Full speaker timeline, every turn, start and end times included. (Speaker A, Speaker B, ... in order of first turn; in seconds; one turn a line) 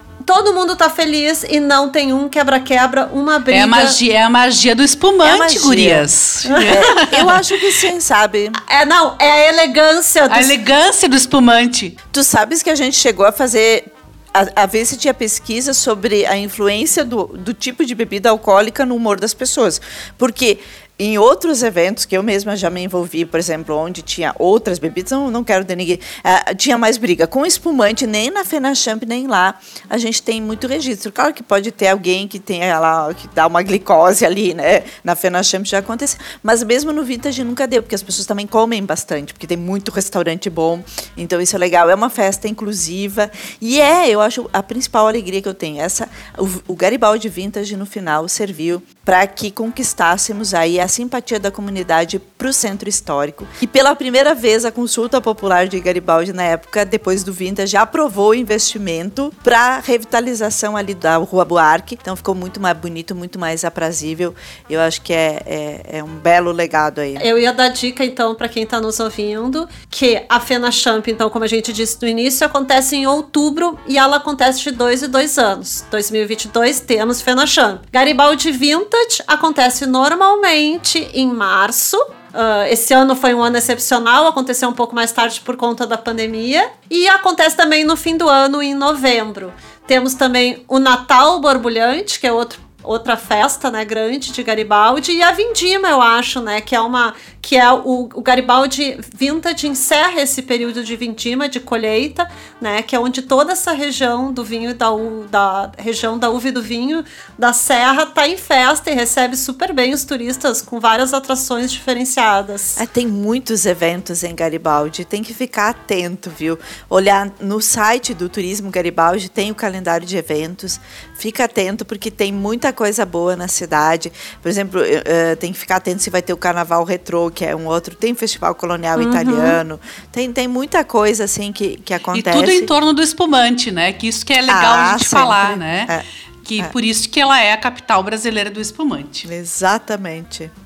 Speaker A: 0.2-4.0
Speaker B: 3.5-7.7
Speaker C: 5.2-6.1
Speaker A: 6.5-6.9
Speaker C: 6.6-8.6
Speaker A: 8.6-10.6
Speaker B: 10.3-11.9
Speaker C: 12.1-67.2
Speaker A: 67.2-112.8
Speaker C: 112.8-132.7
Speaker B: 128.9-129.6
Speaker B: 132.1-135.9
Speaker C: 134.5-136.0
Speaker B: 136.4-139.3
Speaker C: 139.2-140.5